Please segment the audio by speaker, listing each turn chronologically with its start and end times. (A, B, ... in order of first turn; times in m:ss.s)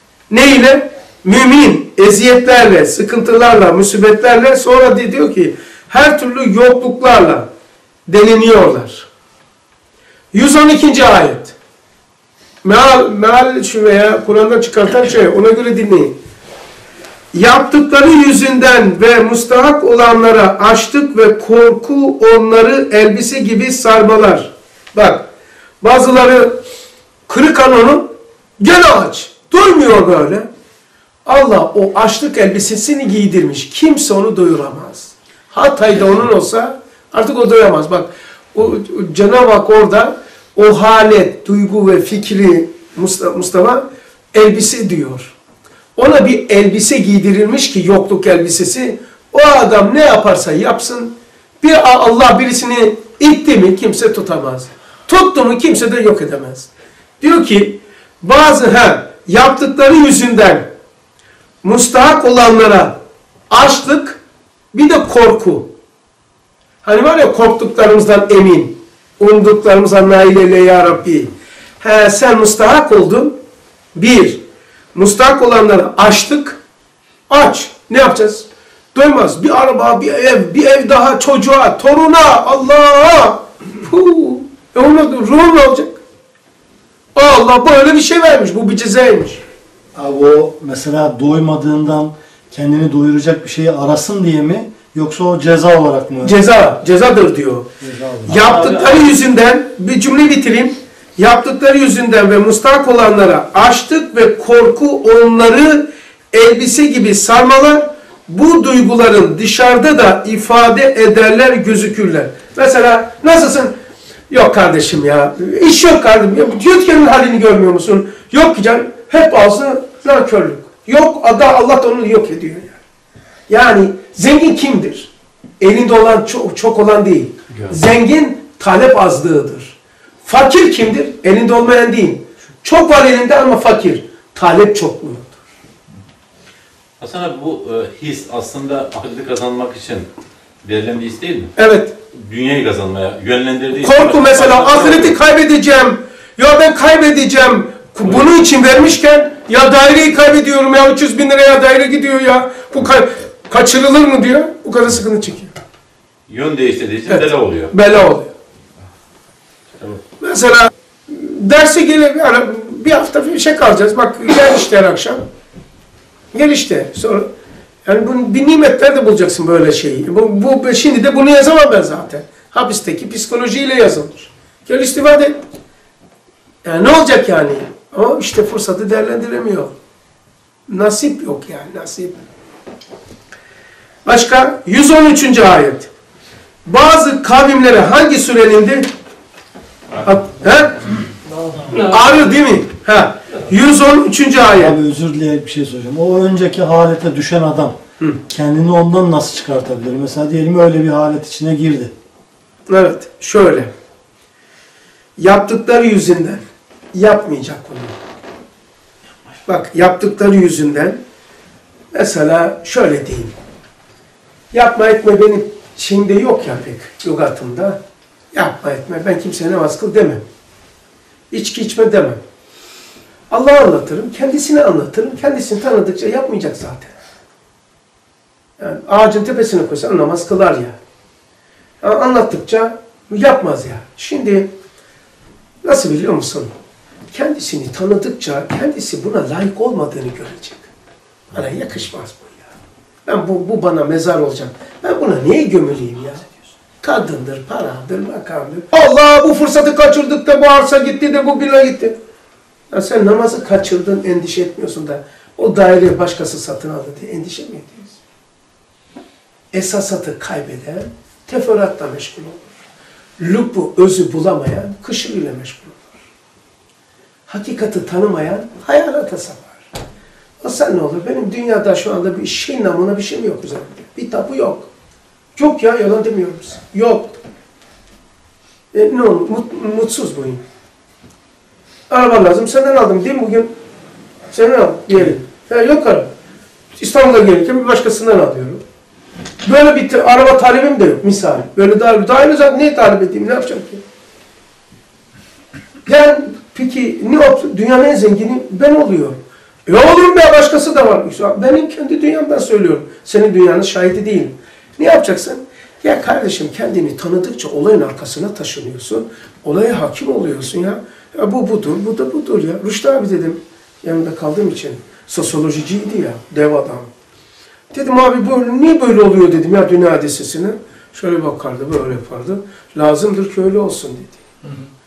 0:00.3-0:07.5 A
0:08.1-0:09.1 A
0:10.3-0:11.6 A
0:12.6-0:16.1 A
0:17.3-0:25.3 A
0:25.8-0:26.6 A
0:27.3-0:30.5 A
0:31.2-0:45.3 A
0:46.0-0:56.7 A
0:57.2-1:00.7 A
1:01.6-1:03.0 A
1:03.5-1:04.2 A
1:04.7-1:05.7 A
1:06.8-1:13.4 A
1:14.0-1:14.4 A
1:14.9-1:16.6 A
1:17.3-1:26.0 A
1:27.1-1:29.4 A
1:30.0-1:36.4 B
1:36.2-1:37.7 A
1:37.8-1:38.9 B
1:38.3-1:53.7 A
1:54.3-2:02.8 A
2:03.5-2:15.4 A
2:17.0-2:20.1 C
2:20.6-2:21.5 C
2:21.6-2:21.9 A
2:22.1-2:25.2 C
2:23.8-2:35.5 A
2:36.3-2:37.7 C
2:37.1-2:38.3 A
2:39.7-2:40.0 C
2:40.2-2:45.2 A
2:46.3-2:47.3 A
2:47.8-2:55.4 A
2:56.6-2:59.7 A
3:00.7-3:02.1 A
3:04.0-3:05.9 A
3:06.6-3:08.9 A
3:10.0-3:10.8 A
3:11.7-3:14.8 A
3:14.5-3:17.8 B
3:18.3-3:21.9 B
3:22.7-3:23.7 A
3:25.2-3:26.4 A
3:26.9-3:28.0 A
3:29.5-3:31.0 A
3:31.9-3:33.3 A
3:34.5-3:37.8 A
3:38.3-3:40.2 A
3:41.3-3:42.2 A
3:43.3-3:46.9 A
3:48.6-3:50.8 A
3:51.8-3:54.5 A
3:55.6-3:56.5 A
3:57.1-4:00.7 A
4:01.3-4:02.5 A
4:03.1-4:06.2 A
4:06.8-4:12.0 A
4:12.7-4:18.0 A
4:19.5-4:22.5 A
4:23.2-4:25.9 A
4:27.3-4:29.6 A
4:30.4-4:34.7 A
4:35.4-4:37.1 A
4:38.7-4:40.4 A
4:41.9-4:43.5 A
4:44.3-4:46.1 A
4:46.8-4:48.6 A
4:49.4-4:53.8 A
4:55.9-5:16.9 A
5:17.7-5:24.2 A